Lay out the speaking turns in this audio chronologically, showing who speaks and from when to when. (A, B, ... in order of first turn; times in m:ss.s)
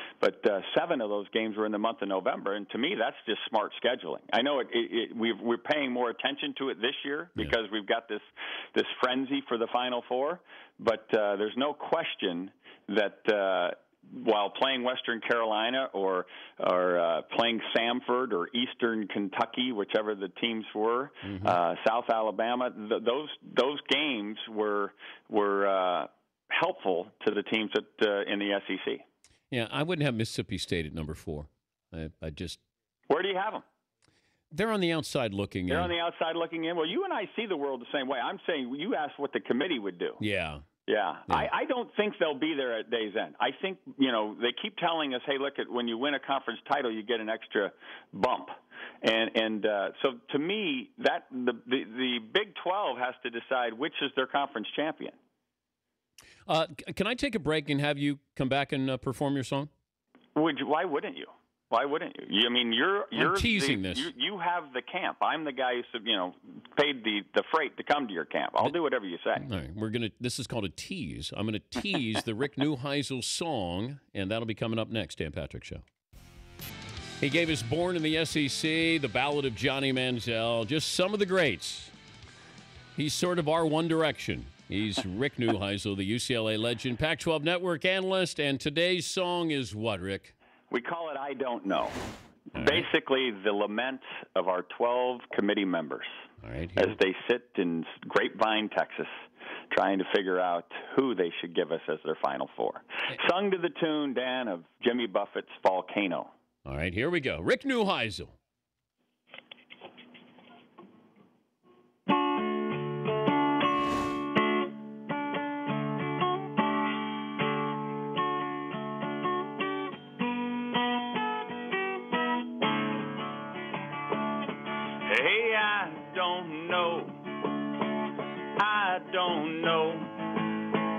0:00.2-0:29.0 A
0:21.2-0:21.6 B
0:29.5-0:32.6 B
0:33.1-0:33.6 A
0:34.5-0:35.9 B
0:35.7-0:40.2 A
0:40.2-0:40.6 B
0:40.9-0:55.2 A
0:56.5-0:59.7 B
1:00.4-1:09.4 A
1:03.1-1:04.1 B
1:09.4-1:15.8 B
1:17.2-1:21.9 B
1:23.0-1:30.3 B
1:30.7-1:32.0 A
1:32.5-1:36.1 A
1:32.6-1:32.9 B
1:36.4-1:37.0 B
1:36.8-1:39.1 A
1:39.7-1:46.3 A
1:46.6-1:48.4 B
2:05.0-2:07.5 A
2:08.6-2:10.4 A